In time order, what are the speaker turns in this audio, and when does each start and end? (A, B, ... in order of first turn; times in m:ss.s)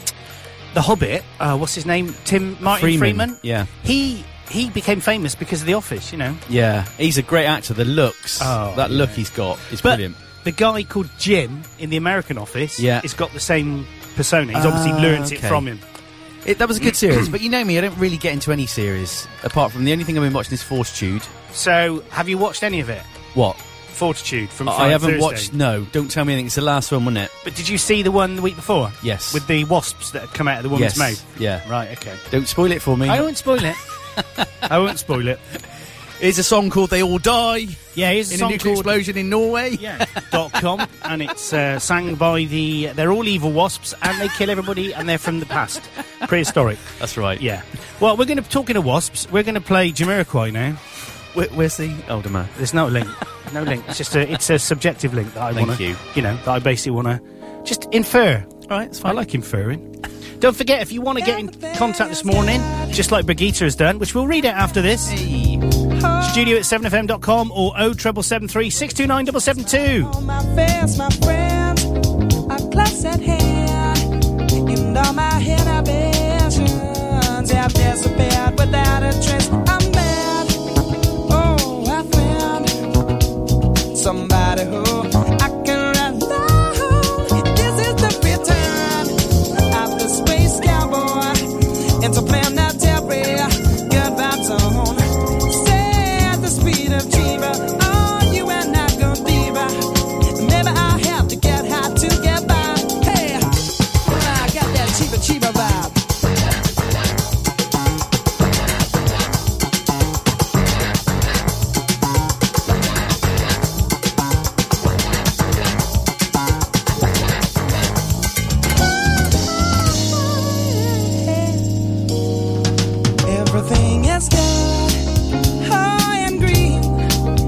0:00.7-0:06.4 A
0:02.6-0:03.7 B
0:06.5-0:10.2 B
0:08.4-0:15.8 A
0:12.8-0:13.1 B
0:14.5-0:15.7 B
0:16.4-0:21.3 B
0:21.5-0:23.1 A
0:23.9-0:25.5 A
0:24.7-0:27.3 B
0:27.4-0:32.2 A
0:29.0-0:29.4 B
0:30.7-0:31.6 B
0:32.3-0:33.3 B
0:33.1-0:33.8 A
0:34.7-0:35.4 A
0:36.2-0:40.7 B
0:38.0-0:39.0 A
0:39.8-0:46.8 A
0:47.0-0:47.4 B
0:47.4-0:50.9 A
0:51.4-0:52.6 B
0:52.6-0:58.5 A
0:55.5-0:56.0 B
0:58.7-0:59.2 B
0:59.0-0:59.9 A
1:00.4-1:05.2 A
1:01.2-1:03.0 C
1:05.0-1:05.6 B
1:05.9-1:06.6 C
1:06.2-1:10.1 A
1:09.9-1:11.9 C
1:12.5-1:14.1 C
1:14.6-1:20.6 C
1:21.3-1:22.7 C
1:23.9-1:29.2 C
1:29.7-1:31.5 C
1:32.0-1:46.0 C
2:00.0-2:01.6 C
2:03.2-2:05.1 C
2:05.6-2:07.1 C